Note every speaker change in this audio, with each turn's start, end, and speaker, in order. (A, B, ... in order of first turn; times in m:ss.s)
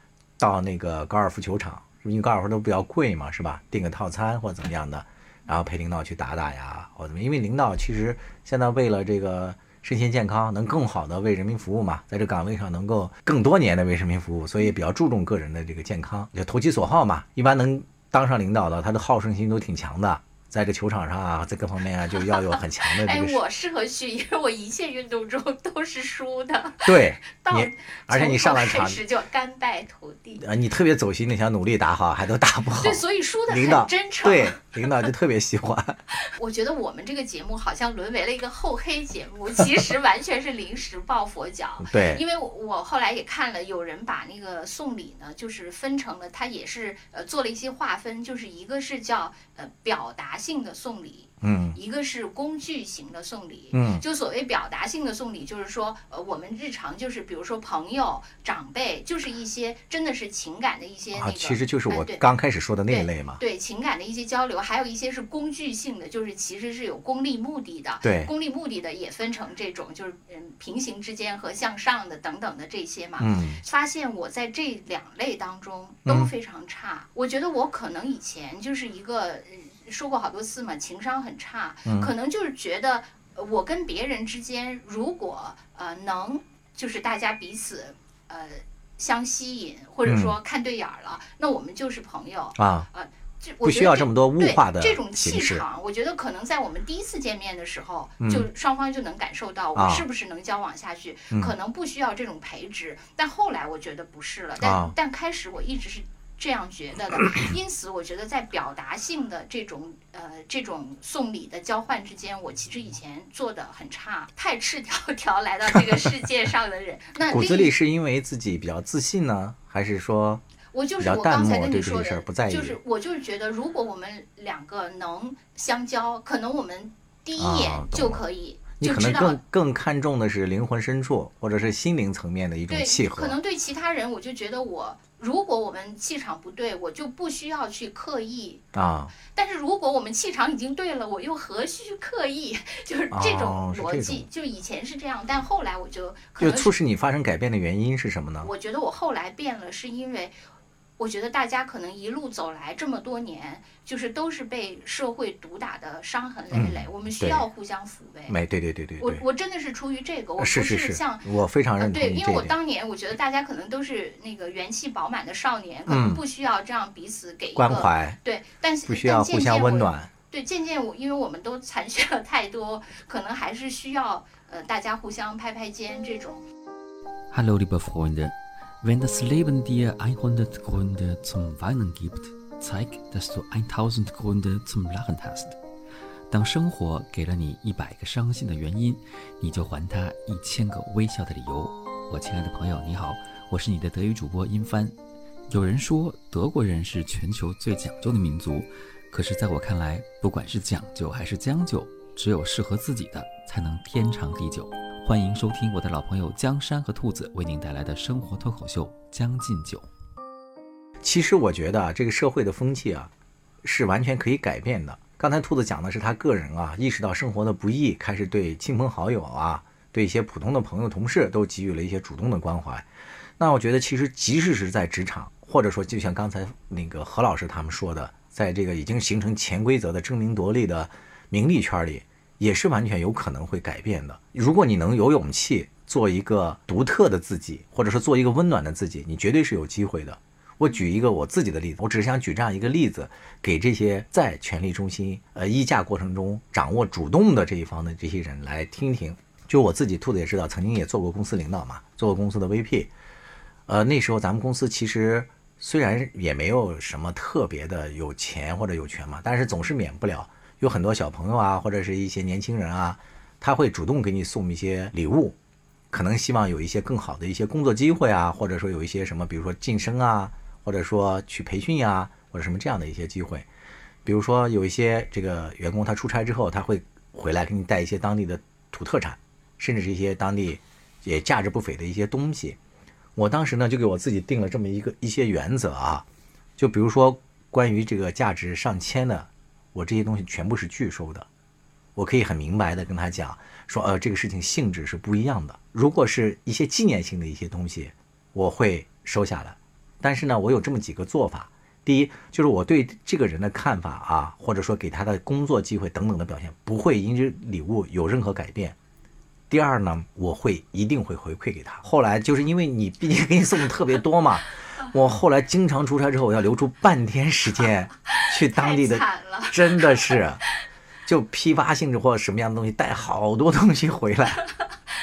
0:00.4-0:23.4 A
0:22.3-0:30.4 B
0:26.8-0:29.0 A
0:30.4-0:36.0 A
0:32.8-0:34.9 B
0:36.2-1:02.2 B
0:41.8-0:42.2 A
0:51.4-0:51.8 A
0:53.7-0:54.0 A
1:01.2-1:03.4 A
1:02.9-1:57.7 B
1:08.0-1:08.3 A
1:13.2-1:13.6 A
1:16.1-1:16.3 A
1:21.8-1:22.1 A
1:30.0-1:30.4 A
1:32.6-1:32.9 A
1:33.6-1:35.6 A
1:38.2-1:38.5 A
1:39.8-1:40.1 A
1:44.6-1:45.0 A
1:57.3-2:00.4 A
2:00.7-2:09.4 B
2:01.0-2:02.8 A
2:07.4-2:08.2 A
2:08.8-2:13.4 A
2:12.7-2:18.6 B
2:18.7-2:19.1 A
2:19.3-2:26.8 B
2:23.1-2:24.2 A
2:26.4-2:28.5 A
2:28.4-2:30.3 B
2:31.0-2:38.4 B
2:36.5-2:37.5 A
2:38.3-2:39.2 A
2:39.0-2:41.3 B
2:40.4-2:42.6 A
2:41.8-2:56.4 B
2:45.9-2:46.2 A
2:47.6-2:48.2 A
2:48.9-2:50.1 A
2:57.3-3:05.6 C
3:06.3-3:15.0 C
3:15.5-3:29.9 C
3:31.0-3:33.1 A
3:33.6-3:42.9 A
3:43.4-4:12.9 A
4:13.7-4:25.4 A
4:25.9-4:33.5 A
4:34.0-4:42.6 A
4:43.2-4:46.1 A
4:46.6-4:51.3 A
4:52.0-5:08.8 A
5:09.5-5:20.4 A
5:18.1-5:20.6 B
5:21.1-5:24.4 A